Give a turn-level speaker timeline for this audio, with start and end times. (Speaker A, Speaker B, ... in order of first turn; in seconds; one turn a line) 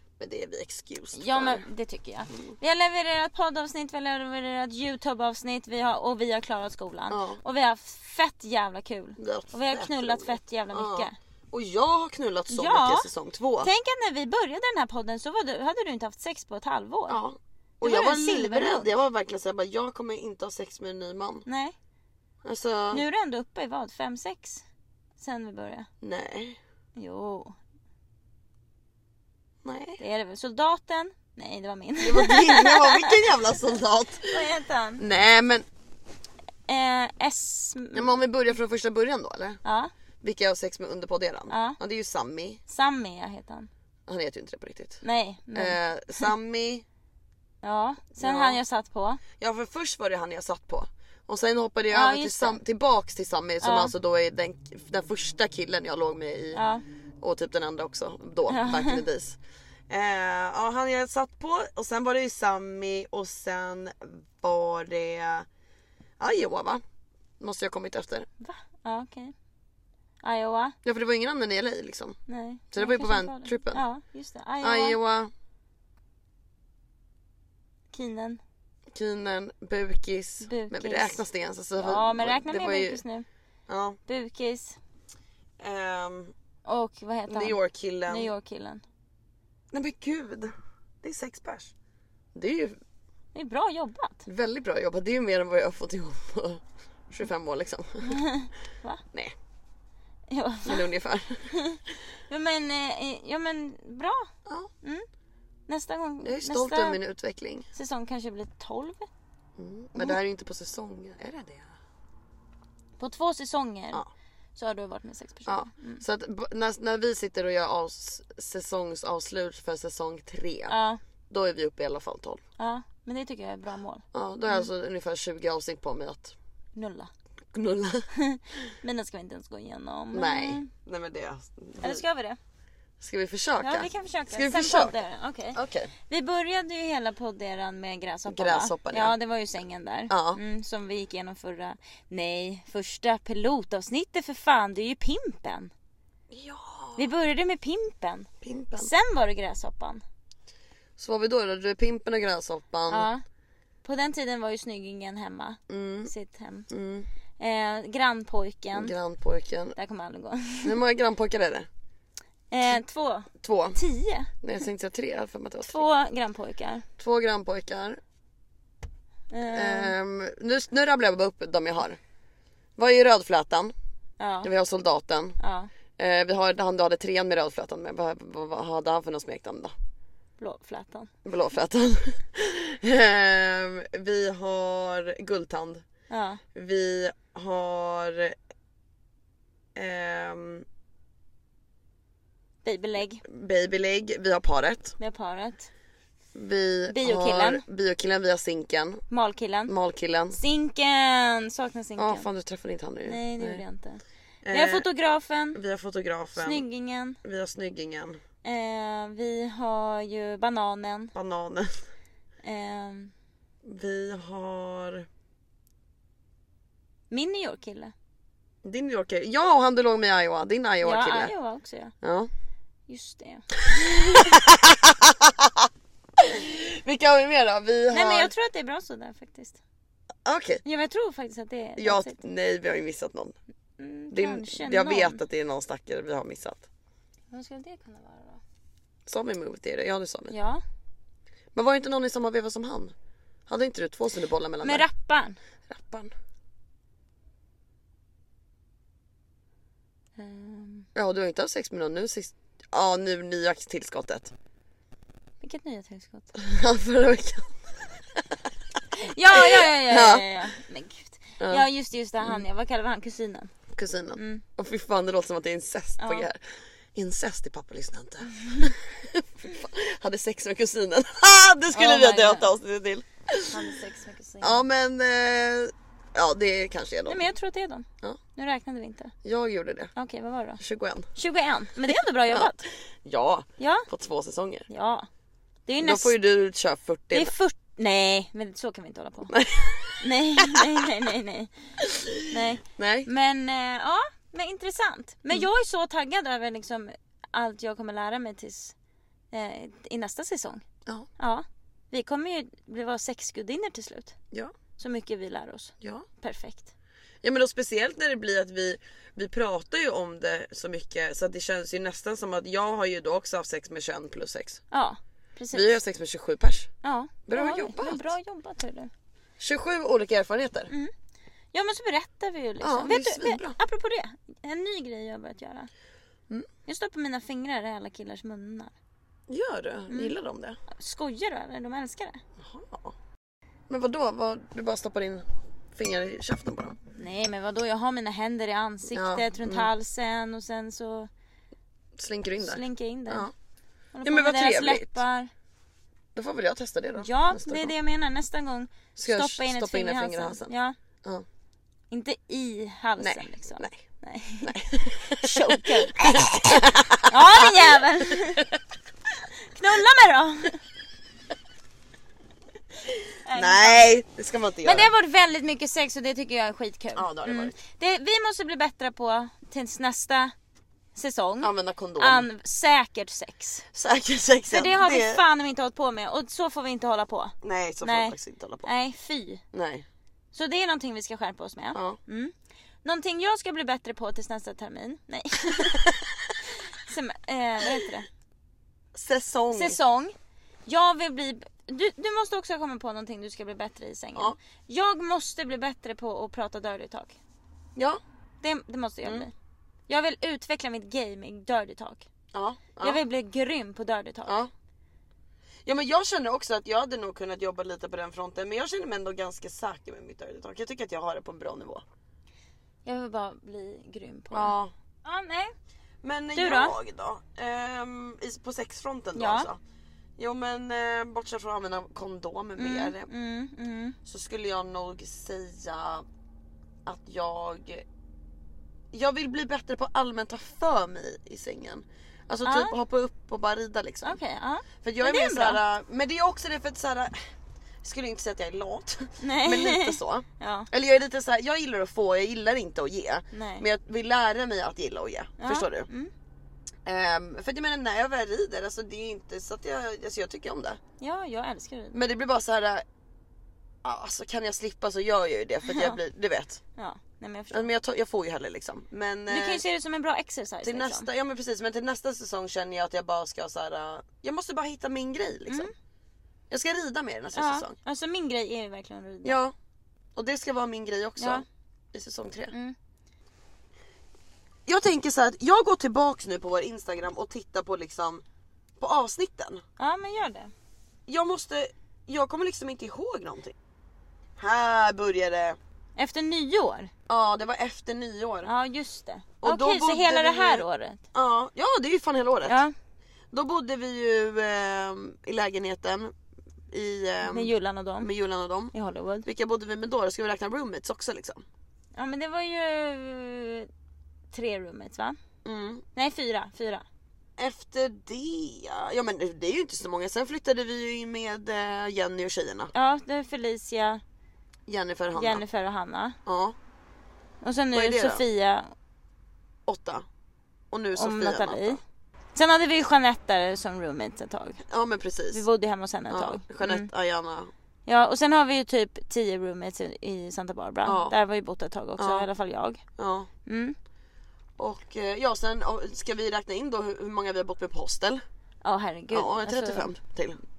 Speaker A: 0.2-1.6
Speaker B: 1.1-11.2
Speaker A: 7.1-7.4
Speaker A: 9.2-13.7
Speaker B: 12.5-13.1
Speaker B: 13.6-17.2
Speaker A: 17.1-21.4
Speaker B: 17.8-18.9
Speaker B: 21.4-21.7
Speaker A: 22.4-23.1
Speaker B: 22.9-24.6
Speaker B: 25.2-25.9
Speaker A: 26.0-26.6
Speaker B: 26.9-27.6
Speaker A: 29.6-30.0
Speaker B: 30.0-33.2
Speaker A: 32.0-34.5
Speaker B: 34.3-35.0
Speaker A: 35.0-35.6
Speaker B: 36.7-38.2
Speaker A: 37.9-39.6
Speaker B: 39.6-39.9
Speaker A: 40.2-42.6
Speaker B: 41.5-41.8
Speaker B: 42.7-43.7
Speaker A: 44.1-45.0
Speaker B: 45.0-46.3
Speaker A: 45.5-46.8
Speaker B: 47.6-49.2
Speaker A: 48.2-48.6
Speaker A: 49.4-56.6
Speaker B: 51.9-52.6
Speaker B: 53.6-53.9
Speaker B: 56.5-56.8
Speaker A: 57.2-59.4
Speaker B: 58.5-59.0
Speaker A: 59.9-65.5
Speaker A: 66.2-66.8
Speaker A: 67.4-68.3
Speaker B: 68.4-69.3
Speaker B: 70.2-70.8
Speaker A: 70.8-72.2
Speaker B: 72.3-75.0
Speaker A: 72.7-73.8
Speaker A: 74.6-75.3
Speaker B: 77.9-78.4
Speaker A: 78.9-83.0
Speaker B: 80.4-81.2
Speaker B: 81.8-83.2
Speaker A: 83.7-84.0
Speaker B: 84.1-84.8
Speaker A: 85.6-86.3
Speaker B: 86.6-88.8
Speaker A: 87.3-88.3
Speaker A: 89.7-91.7
Speaker A: 92.3-92.8
Speaker B: 93.3-94.2
Speaker A: 94.2-98.2
Speaker B: 98.0-99.0
Speaker B: 100.3-100.9
Speaker A: 100.7-101.5
Speaker B: 101.5-101.8
Speaker B: 102.3-104.3
Speaker B: 105.7-107.0
Speaker A: 106.2-107.7
Speaker B: 107.7-109.1
Speaker A: 109.6-111.7
Speaker B: 113.0-114.0
Speaker B: 114.5-116.0
Speaker A: 115.5-120.8
Speaker B: 120.7-121.0
Speaker A: 121.3-122.4
Speaker B: 122.6-124.7
Speaker A: 124.1-126.3
Speaker B: 126.8-127.1
Speaker A: 127.5-128.1
Speaker B: 128.2-130.7
Speaker A: 130.1-132.0
Speaker B: 131.8-132.4
Speaker A: 133.0-134.9
Speaker B: 133.6-145.7
Speaker A: 135.5-135.9
Speaker A: 138.3-139.2
Speaker A: 140.1-140.4
Speaker A: 146.3-147.0
Speaker B: 146.9-150.0
Speaker A: 148.4-148.9
Speaker A: 151.0-153.1
Speaker B: 152.9-153.2
Speaker B: 153.8-156.7
Speaker A: 155.7-156.1
Speaker A: 156.7-157.1
Speaker B: 157.4-158.9
Speaker A: 158.7-159.7
Speaker B: 159.8-160.8
Speaker A: 160.6-161.7
Speaker B: 162.5-164.3
Speaker A: 163.4-163.8
Speaker A: 164.4-165.8
Speaker B: 165.6-166.8
Speaker A: 167.0-168.0
Speaker B: 169.3-169.9
Speaker A: 169.5-172.0
Speaker A: 172.8-173.7
Speaker B: 174.2-174.5
Speaker A: 174.4-175.3
Speaker B: 175.4-175.7
Speaker A: 176.0-179.7
Speaker B: 180.4-181.1
Speaker A: 181.2-185.8
Speaker B: 186.1-186.4
Speaker A: 186.5-188.3
Speaker A: 189.7-190.7
Speaker B: 192.6-193.2
Speaker A: 193.2-194.9
Speaker B: 195.0-195.7
Speaker A: 196.3-199.0
Speaker B: 196.9-197.6
Speaker B: 199.1-199.7
Speaker A: 199.7-200.4
Speaker B: 200.3-202.2
Speaker A: 202.0-203.6
Speaker B: 203.1-205.6
Speaker A: 204.4-204.9
Speaker A: 205.5-206.6
Speaker B: 206.3-207.2
Speaker A: 207.2-208.2
Speaker B: 208.4-211.1
Speaker A: 211.1-211.8
Speaker B: 212.4-213.1
Speaker A: 213.6-215.1
Speaker B: 217.1-217.9
Speaker A: 218.6-221.3
Speaker B: 220.8-221.9
Speaker A: 222.0-222.3
Speaker B: 222.9-223.5
Speaker A: 223.8-225.7
Speaker A: 226.2-228.3
Speaker B: 227.9-229.6
Speaker A: 230.2-230.6
Speaker B: 230.6-232.2
Speaker A: 231.8-233.3
Speaker B: 233.8-235.2
Speaker A: 234.1-236.7
Speaker B: 237.3-238.4
Speaker A: 239.1-240.3
Speaker B: 240.3-240.6
Speaker A: 241.5-242.9
Speaker A: 243.5-244.9
Speaker B: 244.6-245.4
Speaker A: 245.7-246.1
Speaker B: 250.2-250.9
Speaker A: 250.9-254.3
Speaker B: 255.4-256.3
Speaker A: 256.3-257.6
Speaker B: 258.9-263.5
Speaker A: 259.3-260.3
Speaker A: 261.4-261.7
Speaker A: 263.7-266.4
Speaker B: 264.1-264.4
Speaker B: 266.0-266.3
Speaker A: 266.9-273.6
Speaker B: 271.7-272.5
Speaker B: 273.5-274.6
Speaker A: 274.4-277.3
Speaker B: 277.1-279.1
Speaker A: 279.2-279.9
Speaker B: 279.9-280.6
Speaker A: 280.6-281.1
Speaker B: 281.1-282.6
Speaker A: 282.3-284.6
Speaker B: 283.6-283.9
Speaker B: 284.7-285.1
Speaker B: 285.7-286.1
Speaker A: 285.8-287.3
Speaker B: 287.1-289.3
Speaker A: 289.3-290.0
Speaker B: 290.0-291.5
Speaker B: 292.3-298.7
Speaker A: 292.6-293.1
Speaker B: 299.3-300.6
Speaker B: 301.2-304.1
Speaker B: 304.8-306.7
Speaker A: 305.8-306.1
Speaker A: 307.2-314.6
Speaker B: 314.7-315.8
Speaker A: 315.5-316.7
Speaker B: 316.8-318.9
Speaker A: 317.3-318.1
Speaker A: 319.4-320.7
Speaker B: 321.5-325.7
Speaker A: 322.6-323.6
Speaker B: 326.6-328.7
Speaker A: 329.3-330.6
Speaker B: 329.9-330.1
Speaker B: 330.7-332.2
Speaker A: 332.4-332.9
Speaker A: 333.7-336.8
Speaker B: 336.9-341.1
Speaker A: 338.9-339.7
Speaker A: 341.9-343.3
Speaker B: 342.4-343.3
Speaker B: 343.9-345.3
Speaker A: 344.0-345.0
Speaker A: 346.1-347.7
Speaker B: 347.0-350.8
Speaker A: 348.9-351.2
Speaker B: 351.9-354.6
Speaker A: 353.0-353.8
Speaker A: 354.4-357.6
Speaker B: 355.2-358.4
Speaker B: 359.5-360.6
Speaker B: 363.2-363.9
Speaker A: 363.3-364.9
Speaker B: 364.6-370.3
Speaker A: 366.9-367.6
Speaker B: 370.9-373.6
Speaker A: 371.4-372.3
Speaker A: 373.7-375.2
Speaker B: 374.5-379.4
Speaker A: 377.4-378.7
Speaker A: 379.5-379.9
Speaker B: 380.3-385.8
Speaker B: 386.7-388.1
Speaker A: 388.9-389.8
Speaker B: 389.5-390.1
Speaker B: 390.6-397.2
Speaker A: 397.8-398.0
Speaker B: 398.4-399.3
Speaker A: 399.0-399.3
Speaker B: 399.9-402.1
Speaker A: 402.3-403.0
Speaker B: 402.8-404.4
Speaker A: 405.6-411.8
Speaker B: 412.8-415.5
Speaker A: 414.3-414.7
Speaker A: 416.0-419.6
Speaker B: 416.3-416.8
Speaker B: 419.1-419.5
Speaker A: 420.2-423.1
Speaker B: 422.6-424.0
Speaker A: 424.0-426.0
Speaker A: 426.9-427.8
Speaker A: 428.9-434.2
Speaker B: 432.4-432.7
Speaker B: 434.0-435.6
Speaker A: 434.8-437.1
Speaker A: 437.8-445.9
Speaker B: 439.2-440.7
Speaker B: 443.3-443.6
Speaker B: 445.4-446.1
Speaker A: 446.9-450.8
Speaker B: 451.0-451.9
Speaker A: 451.9-452.8
Speaker A: 453.8-456.6
Speaker B: 455.7-456.0
Speaker B: 456.8-457.7
Speaker A: 457.5-459.6
Speaker B: 459.3-461.1
Speaker A: 460.6-465.7
Speaker B: 465.5-465.7
Speaker A: 466.5-467.8
Speaker B: 467.3-469.4
Speaker A: 469.2-469.5
Speaker A: 470.1-472.5
Speaker B: 471.2-471.4
Speaker A: 474.6-478.2
Speaker A: 478.8-479.6
Speaker B: 479.8-480.5
Speaker A: 481.1-483.6
Speaker A: 484.4-485.6
Speaker B: 485.9-486.9
Speaker A: 487.1-488.5
Speaker B: 488.4-491.0
Speaker A: 489.4-492.6
Speaker B: 492.4-492.7
Speaker A: 493.3-496.1
Speaker A: 496.7-498.7
Speaker B: 497.2-498.1
Speaker B: 498.7-499.3
Speaker A: 499.2-501.4
Speaker B: 501.9-503.7
Speaker B: 504.3-505.2
Speaker A: 505.4-505.8
Speaker B: 505.9-506.8
Speaker A: 507.4-512.7
Speaker B: 512.7-514.0
Speaker A: 514.7-515.4
Speaker B: 515.1-516.2
Speaker A: 516.2-516.5
Speaker B: 517.4-518.7
Speaker A: 517.7-518.2
Speaker A: 519.6-520.0
Speaker A: 520.7-521.8
Speaker B: 520.9-521.8
Speaker B: 522.3-524.6
Speaker A: 524.7-525.4
Speaker B: 525.3-526.9
Speaker A: 526.1-527.5
Speaker B: 527.9-532.8
Speaker A: 530.8-531.1
Speaker A: 532.0-532.3
Speaker A: 533.0-533.3
Speaker B: 533.5-533.8
Speaker A: 534.6-538.2
Speaker B: 538.6-539.9
Speaker A: 539.1-540.4